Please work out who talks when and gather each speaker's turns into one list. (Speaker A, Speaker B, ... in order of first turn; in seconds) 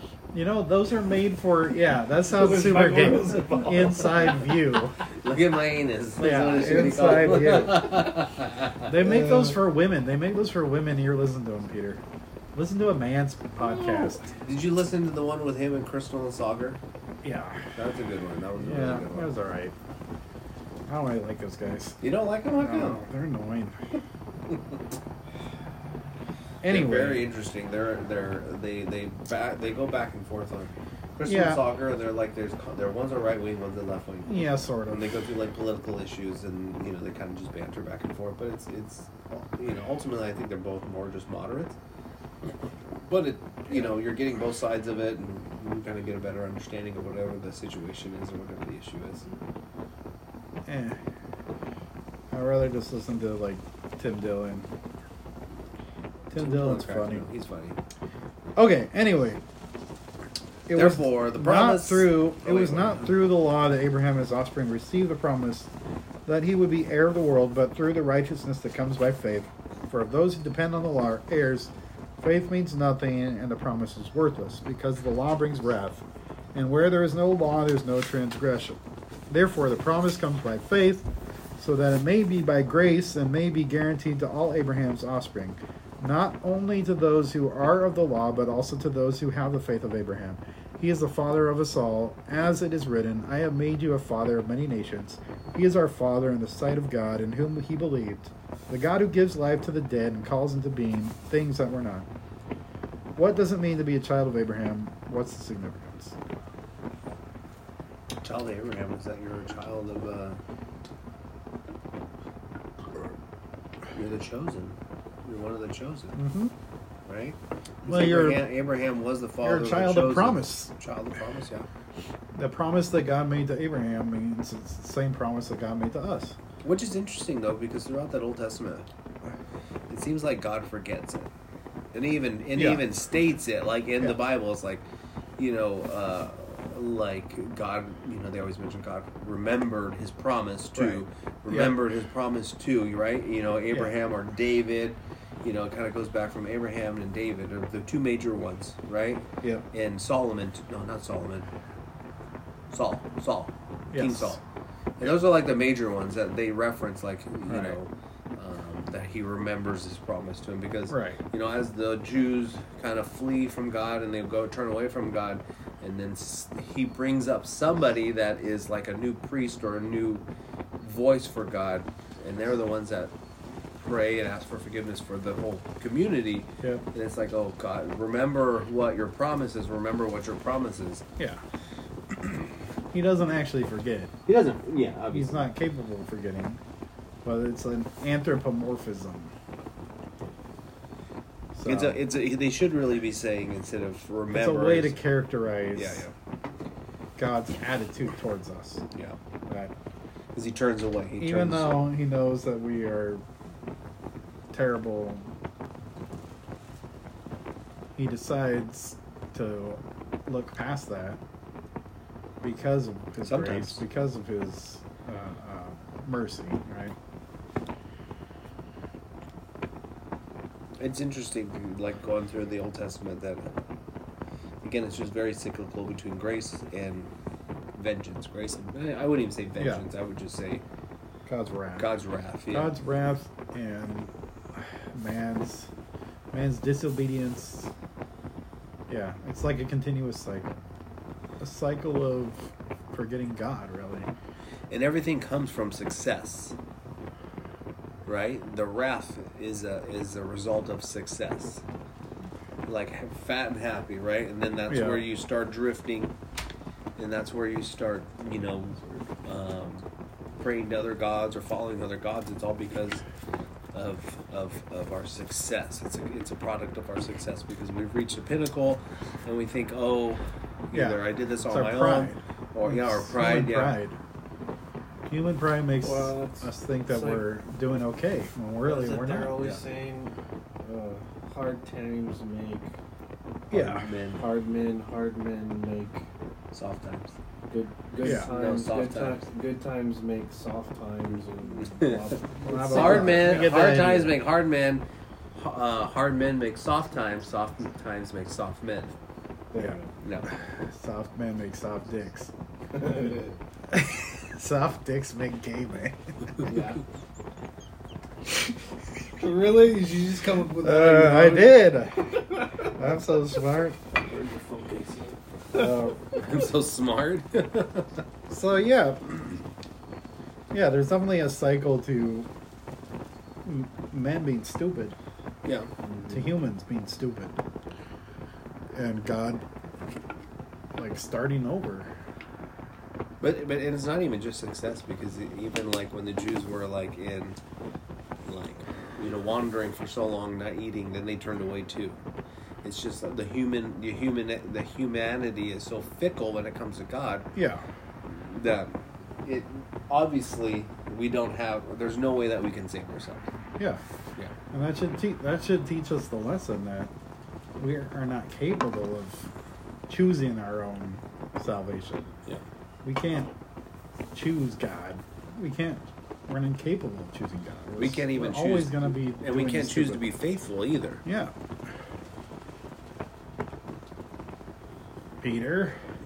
Speaker A: 0.3-5.0, 6.2-8.0, 8.8-12.0, 12.5-14.3, 17.2-17.6, 18.6-19.7, 20.9-22.0, 22.6-23.8, 26.6-27.2, 31.2-31.6, 34.2-35.2, 50.7-51.0, 52.3-54.7, 56.3-57.3, 58.5-59.4, 60.7-65.7, 66.2-78.8, 79.3-102.1, 103.2-106.1, 116.1-116.5, 117.8-118.4, 119.4-120.7, 122.3-126.3, 132.6-132.9, 140.7-141.8, 153.9-154.4, 157.5-157.8, 160.9-161.2, 182.9-184.1, 185.1-186.6, 187.2-189.3, 191.5-192.0, 194.3-196.1, 197.2-198.8, 199.5-199.7, 201.2-203.2, 204.5-205.3, 207.9-211.2, 212.4-216.9, 229.6-229.8, 231.2-231.9, 232.5-235.7, 236.3-237.7, 238.9-240.5, 241.4-244.1, 254.7-255.1, 270.7-273.9, 275.1-279.6, 283.5-283.9, 288.0-288.3, 292.4-294.2, 300.3-302.3, 303.7-306.3, 310.6-313.8, 315.6-315.9, 318.3-319.2, 320.5-322.3, 323.4-324.9, 326.1-327.4, 328.7-329.4, 330.8-331.9, 347.3-347.6, 354.5-356.9, 357.6-359.3, 359.9-362.1, 362.8-363.3, 364.1-370.1, 371.0-371.3, 375.2-375.8
Speaker B: 2.2-4.4, 6.5-7.4, 9.1-9.5, 275.8-277.2, 278.6-282.7, 284.2-286.0, 287.5-293.4, 299.5-299.9, 302.7-303.3, 306.4-306.8, 309.2-311.7, 313.9-316.0, 325.9-326.2
Speaker C: 5.2-8.9, 13.6-16.8, 17.8-19.3, 22.0-23.0, 26.6-41.8, 42.5-49.3, 56.3-57.8, 60.7-63.1, 108.2-110.4, 113.9-116.2, 117.0-121.7, 126.6-128.9, 129.9-131.3, 131.9-134.8, 135.4-151.5, 152.7-154.4, 155.0-170.2, 170.8-173.1, 173.8-181.0, 184.3-185.5, 191.7-195.0, 195.7-196.1, 198.9-199.2, 200.3-201.9, 213.2-213.8, 220.8-223.5, 224.6-227.1, 227.7-230.6, 231.8-232.7, 244.7-246.6, 248.0-251.6, 252.7-256.1, 256.9-259.9, 260.4-263.0, 263.7-273.8, 283.5-284.2, 286.5-287.1, 288.0-289.2, 291.4-292.2, 292.7-298.9, 300.0-300.3, 316.1-318.0, 325.4-325.7, 333.2-337.4, 338.2-342.0, 342.6-347.3, 348.1-353.2, 367.8-371.0